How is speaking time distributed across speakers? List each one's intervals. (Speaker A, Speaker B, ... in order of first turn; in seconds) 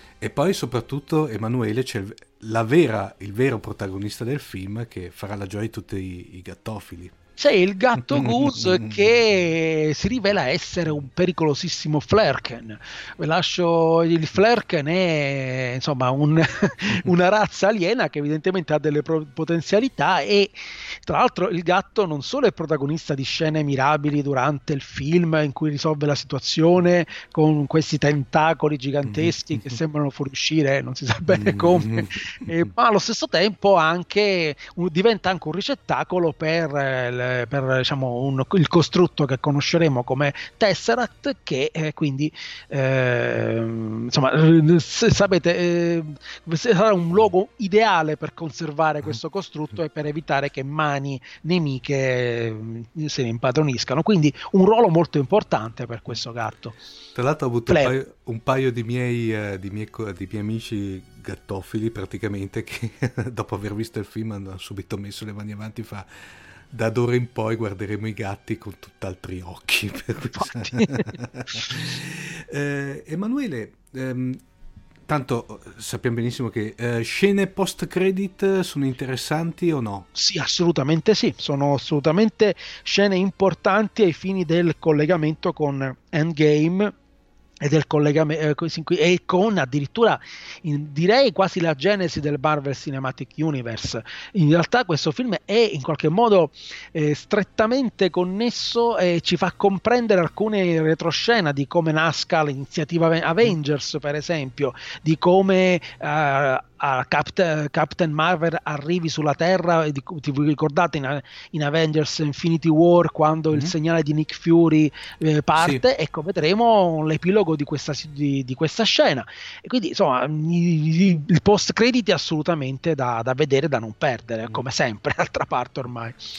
Speaker A: 0.2-7.1, 8.1-9.0, 29.0-29.8, 31.3-32.7, 57.1-66.1, 66.7-74.4, 75.1-80.1, 115.6-115.8
Speaker B: 7.4-56.8, 70.4-71.1, 80.1-86.9, 87.6-126.2